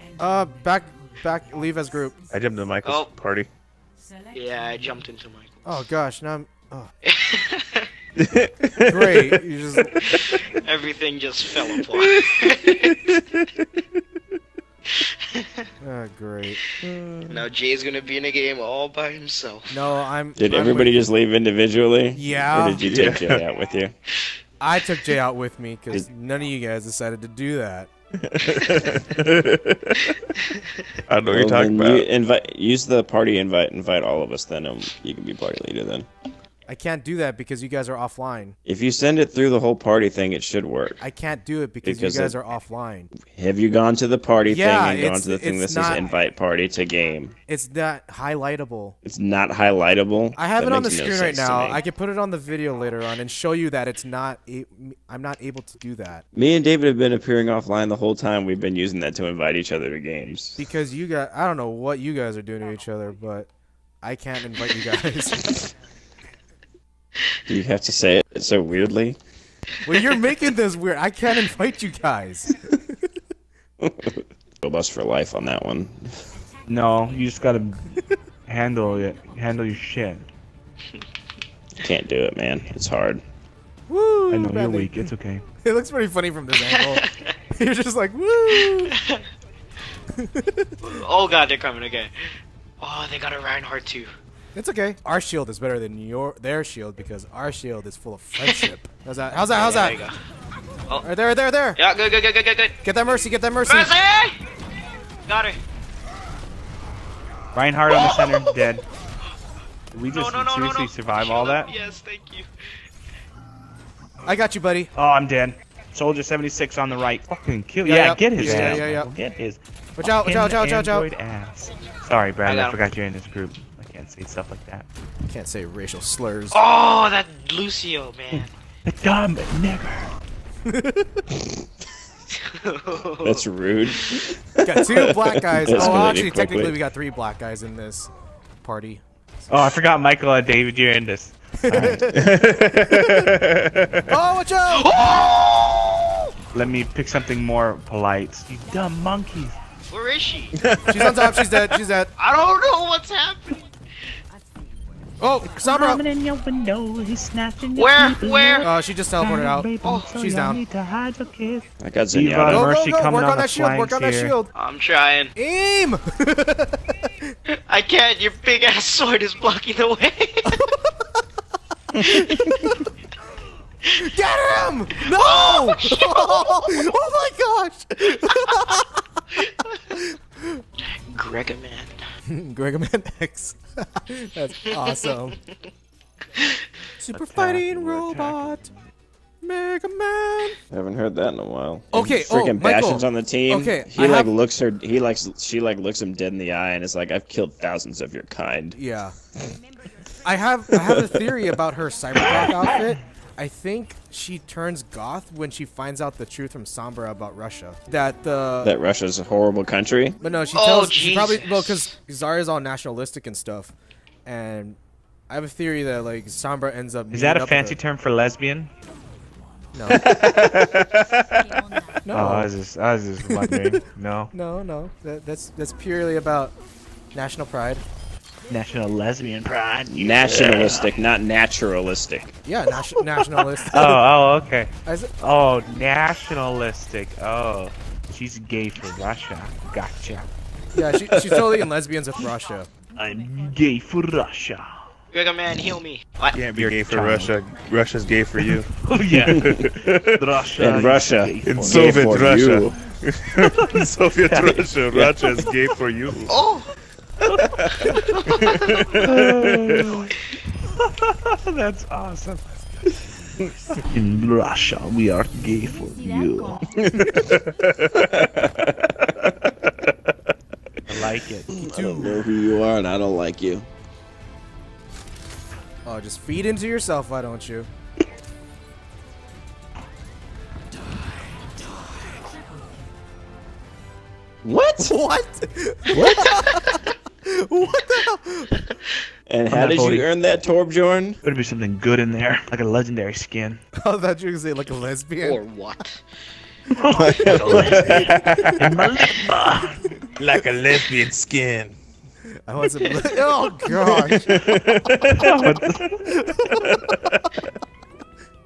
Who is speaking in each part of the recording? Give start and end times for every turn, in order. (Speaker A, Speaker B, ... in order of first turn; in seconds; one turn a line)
Speaker A: 0.2-2.1
Speaker B: 2.3-3.5
Speaker C: 2.8-3.1
Speaker C: 4.3-5.8
Speaker A: 5.6-6.9
Speaker C: 7.0-7.9
Speaker B: 8.2-9.4
Speaker A: 8.8-10.1
Speaker C: 10.0-13.2
Speaker B: 10.0-10.4
Speaker B: 11.6-14.0
Speaker C: 14.9-15.7
Speaker A: 15.8-17.4
Speaker C: 17.3-19.7
Speaker A: 19.7-21.0
Speaker D: 20.4-23.9
Speaker A: 22.1-22.8
Speaker B: 22.8-23.4
Speaker A: 24.6-27.9
Speaker B: 28.2-30.2
Speaker C: 30.5-30.9
Speaker B: 31.1-32.1
Speaker D: 31.3-36.1
Speaker A: 36.7-38.5
Speaker D: 38.6-41.0
Speaker A: 41.0-43.1
Speaker D: 41.8-42.4
Speaker D: 43.2-47.3
Speaker A: 44.5-46.0
Speaker A: 47.5-49.0
Speaker D: 49.0-51.8
Speaker A: 50.4-56.2
Speaker D: 56.3-60.6
Speaker A: 60.6-63.5
Speaker A: 64.0-65.7
Speaker D: 67.5-69.2
Speaker A: 69.8-72.8
Speaker D: 73.8-76.2
Speaker E: 76.7-80.2
Speaker D: 81.8-83.2
Speaker A: 83.9-85.0
Speaker E: 84.3-85.4
Speaker A: 85.6-89.0
Speaker C: 86.7-87.3
Speaker C: 88.7-89.2
Speaker A: 90.2-91.0
Speaker C: 90.8-94.1
Speaker A: 94.5-100.0
Speaker C: 99.5-100.2
Speaker A: 101.0-101.8
Speaker C: 101.8-102.8
Speaker A: 102.8-103.9
Speaker C: 103.6-104.4
Speaker C: 105.3-105.6
Speaker E: 107.5-108.8
Speaker C: 107.9-108.5
Speaker E: 109.9-111.7
Speaker C: 110.1-112.5
Speaker A: 114.2-114.9
Speaker E: 114.9-124.8
Speaker A: 117.8-119.1
Speaker A: 120.0-121.0
Speaker C: 122.4-122.8
Speaker A: 125.3-126.6
Speaker C: 126.5-128.5
Speaker E: 128.8-130.1
Speaker A: 130.7-131.2
Speaker C: 132.3-133.4
Speaker D: 133.2-136.7
Speaker A: 134.6-138.1
Speaker A: 138.6-139.5
Speaker E: 139.5-142.1
Speaker A: 141.6-142.3
Speaker B: 142.1-144.1
Speaker A: 142.9-143.3
Speaker A: 144.1-145.3
Speaker C: 144.7-146.3
Speaker E: 146.5-149.6
Speaker C: 149.9-150.5
Speaker B: 150.5-151.7
Speaker A: 150.9-152.1
Speaker C: 152.2-153.6
Speaker A: 155.2-156.0
Speaker E: 155.5-164.3
Speaker C: 157.7-158.7
Speaker A: 158.6-160.6
Speaker C: 159.8-160.1
Speaker D: 161.8-162.7
Speaker A: 162.5-164.5
Speaker C: 164.5-165.3
Speaker A: 165.3-167.3
Speaker C: 167.7-170.7
Speaker A: 170.5-171.1
Speaker A: 171.9-172.9
Speaker A: 173.9-180.6
Speaker C: 175.1-176.8
Speaker C: 178.1-178.8
Speaker C: 179.3-179.9
Speaker C: 180.9-181.9
Speaker A: 182.3-185.4
Speaker C: 185.1-185.6
Speaker C: 186.4-186.7
Speaker A: 187.0-188.7
Speaker E: 187.1-188.6
Speaker A: 189.4-190.6
Speaker D: 190.7-198.8
Speaker A: 191.9-194.3
Speaker A: 198.7-199.1
Speaker A: 200.2-208.8
Speaker D: 208.6-210.2
Speaker A: 210.2-213.7
Speaker C: 210.5-211.9
Speaker A: 214.2-214.8
Speaker A: 215.3-217.8
Speaker E: 217.1-218.7
Speaker A: 219.7-220.0
Speaker B: 219.9-221.6
Speaker A: 222.0-222.5
Speaker E: 222.1-224.3
Speaker A: 223.3-223.7
Speaker A: 224.3-226.6
Speaker A: 227.1-227.8
Speaker E: 228.5-230.9
Speaker D: 229.9-232.3
Speaker A: 232.4-234.0
Speaker E: 233.7-240.3
Speaker A: 234.8-235.1
Speaker A: 240.7-242.7
Speaker D: 241.1-241.7
Speaker E: 243.0-244.8
Speaker C: 245.1-246.4
Speaker B: 246.3-250.2
Speaker E: 246.5-247.3
Speaker E: 248.7-252.2
Speaker D: 249.2-249.6
Speaker D: 250.6-252.8
Speaker B: 251.4-256.4
Speaker E: 254.2-254.6
Speaker C: 256.3-256.7
Speaker B: 257.4-259.9
Speaker E: 257.4-258.2
Speaker C: 257.8-258.7
Speaker E: 259.0-262.4
Speaker E: 263.9-266.7
Speaker B: 266.8-268.3
Speaker B: 269.0-269.9
Speaker E: 270.9-271.5
Speaker D: 271.5-273.7
Speaker A: 271.5-272.3
Speaker A: 275.8-277.7
Speaker D: 284.4-284.9
Speaker A: 284.8-288.6
Speaker C: 286.1-286.9
Speaker D: 289.3-291.2
Speaker E: 289.5-290.1
Speaker E: 291.2-293.6
Speaker A: 293.8-295.4
Speaker C: 295.2-296.0
Speaker E: 296.7-300.0
Speaker B: 296.9-298.9
Speaker A: 297.2-298.6
Speaker B: 300.1-301.8
Speaker A: 302.4-304.7
Speaker C: 302.8-303.2
Speaker B: 303.9-305.8
Speaker E: 305.1-306.0
Speaker A: 306.1-307.1
Speaker B: 306.6-307.2